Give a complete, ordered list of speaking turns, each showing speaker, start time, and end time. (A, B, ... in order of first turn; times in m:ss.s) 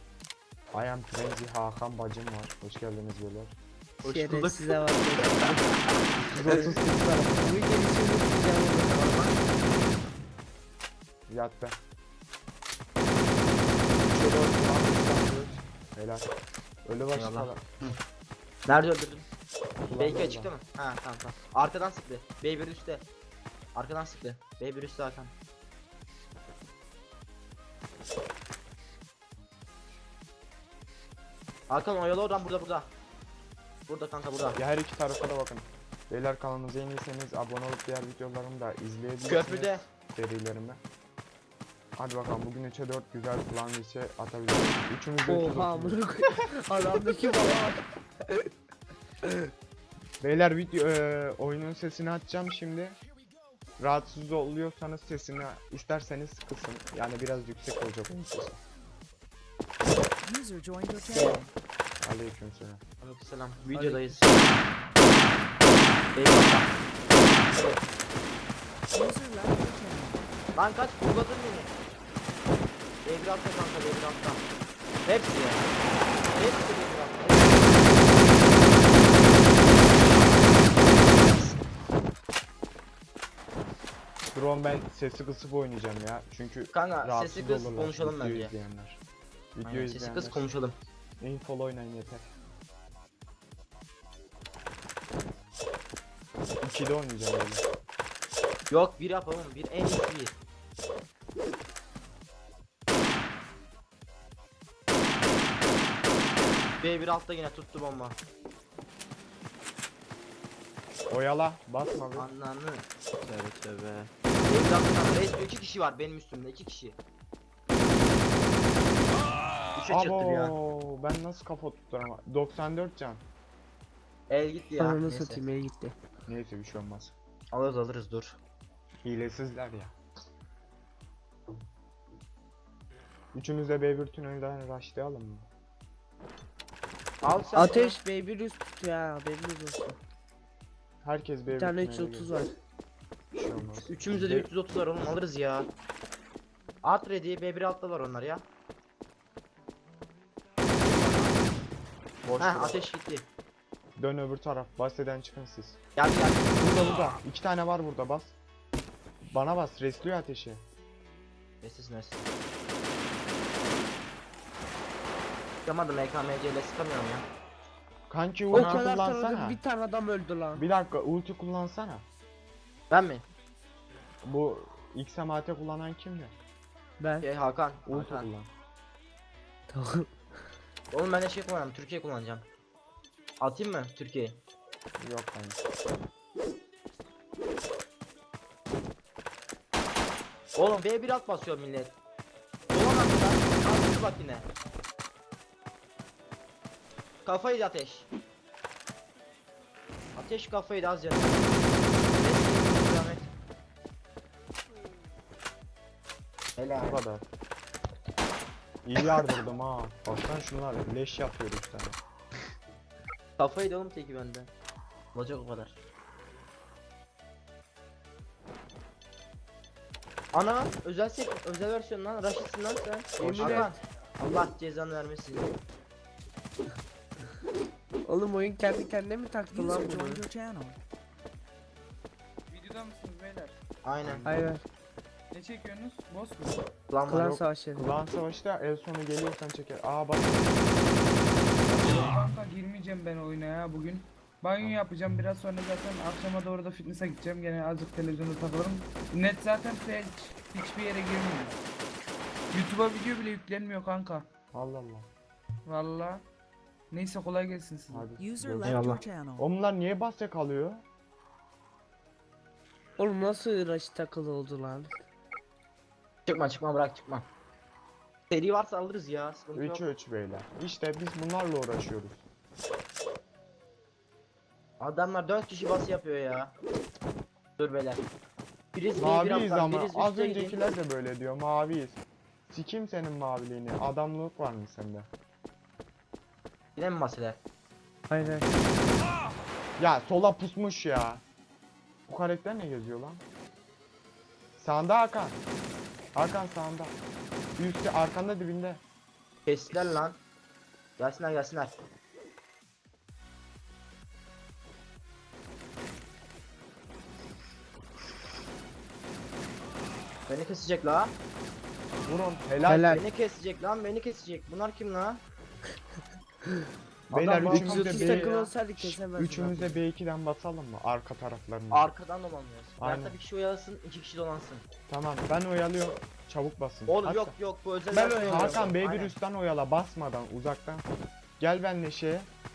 0:00.7-0:03.6 A
0:04.0-0:05.3 B
0:04.0-0:05.6 C
0:06.3-0:06.9 A
0:06.5-0:09.2 C
0:08.8-0:09.4 B
0:11.3-0:11.8 A
0:14.0-0:16.3 A
0:16.8-0:17.8 A
0:17.1-0:17.9 B
0:18.7-0:19.2 B
0:19.9-0:20.5 A
0:20.0-0:23.0 B
0:23.7-0:25.3 B
0:31.7-0:32.9 B
0:33.9-0:34.6 B
0:34.6-0:40.8 A
0:39.2-0:39.8 B
0:42.0-0:46.0 A
0:45.2-0:47.8 C
0:50.2-0:53.0 A
0:53.8-0:58.6 A
1:00.2-1:01.5 D
1:01.0-1:01.4 B
1:02.0-1:02.8 A
1:03.0-1:04.5 B
1:06.1-1:06.7 B
1:07.5-1:07.8 B
1:08.9-1:10.2 D
1:10.5-1:11.7 B
1:13.0-1:14.4 B
1:15.0-1:15.7 B
1:16.3-1:21.6 B
1:24.3-1:29.0 A
1:26.7-1:28.6 B
1:29.5-1:30.4 A
1:29.6-1:30.8 B
1:31.2-1:32.3 A
1:36.6-1:37.6 A
1:38.7-1:40.4 B
1:46.8-1:48.2 B
1:51.1-1:52.3 A
1:52.1-1:57.0 B
1:59.8-2:00.5 B
1:59.9-2:03.2 A
2:04.3-2:05.4 B
2:04.8-2:06.0 C
2:06.3-2:07.1 A
2:07.5-2:08.4 B
2:09.0-2:09.9 A
2:13.3-2:15.5 A
2:17.2-2:18.0 B
2:17.5-2:20.0 C
2:21.0-2:22.3 A
2:21.5-2:22.5 C
2:23.3-2:24.5 A
2:23.8-2:25.7 B
2:26.8-2:28.4 B
2:30.8-2:31.4 B
2:32.2-2:32.8 A
2:32.4-2:33.3 B
2:34.0-2:35.8 A
2:36.0-2:36.6 B
2:36.6-2:38.4 A
2:39.2-2:40.6 A
2:41.6-2:42.3 B
2:45.6-2:47.3 B
2:48.1-2:49.6 A
2:48.5-2:48.9 B
2:48.5-2:50.6 C
2:50.5-2:52.0 A
2:52.9-2:53.3 B
2:54.2-2:56.3 A
2:57.0-2:57.3 C
2:57.2-2:58.3 B
2:57.9-2:58.5 A
2:59.7-3:00.1 C
3:00.9-3:02.4 B
3:03.4-3:04.4 B
3:05.0-3:05.6 A
3:10.6-3:12.0 B
3:12.7-3:14.5 B
3:17.2-3:18.1 B
3:20.2-3:21.6 B
3:22.2-3:23.3 B
3:26.6-3:27.0 B
3:26.8-3:27.2 A
3:28.8-3:32.0 A
3:33.4-3:34.5 B
3:35.1-3:35.8 B
3:40.3-3:45.6 B
3:43.2-3:43.8 C
3:43.2-3:43.7 A
3:48.0-3:50.2 C
3:49.5-3:50.8 D
3:52.5-3:53.6 E
3:53.8-3:54.2 B
3:54.0-3:54.4 A
3:54.2-3:54.6 C
3:55.3-3:56.6 E
3:56.9-3:57.3 B
3:57.1-3:57.9 C
3:57.2-4:00.8 A
4:01.8-4:11.6 E
4:12.5-4:14.3 E
4:14.5-4:15.1 A
4:15.6-4:16.2 E
4:16.9-4:18.1 E
4:17.9-4:20.8 A
4:18.1-4:19.4 D
4:18.6-4:19.0 B
4:23.0-4:25.0 C
4:26.3-4:27.3 B
4:28.3-4:29.8 B
4:29.5-4:32.2 A
4:34.8-4:36.5 B
4:37.6-4:38.0 B
4:38.7-4:40.6 B
4:39.0-4:45.1 A
4:46.8-4:47.4 B
4:48.1-4:48.5 C
4:49.8-4:51.2 A
4:52.1-4:53.2 A
4:54.6-4:55.4 A
4:56.1-4:57.0 A
4:57.6-4:58.8 A
4:59.4-5:00.2 B
5:01.0-5:01.8 B
5:10.3-5:11.1 B
5:12.0-5:13.0 A
5:12.6-5:13.0 C
5:12.9-5:15.2 B
5:17.1-5:21.9 A
5:17.1-5:18.5 B
5:17.5-5:19.8 C
5:21.7-5:24.7 B
5:22.8-5:23.2 A
5:24.9-5:27.3 A
5:26.9-5:29.2 B
5:27.9-5:30.8 A
5:27.9-5:28.6 C
5:31.4-5:32.3 A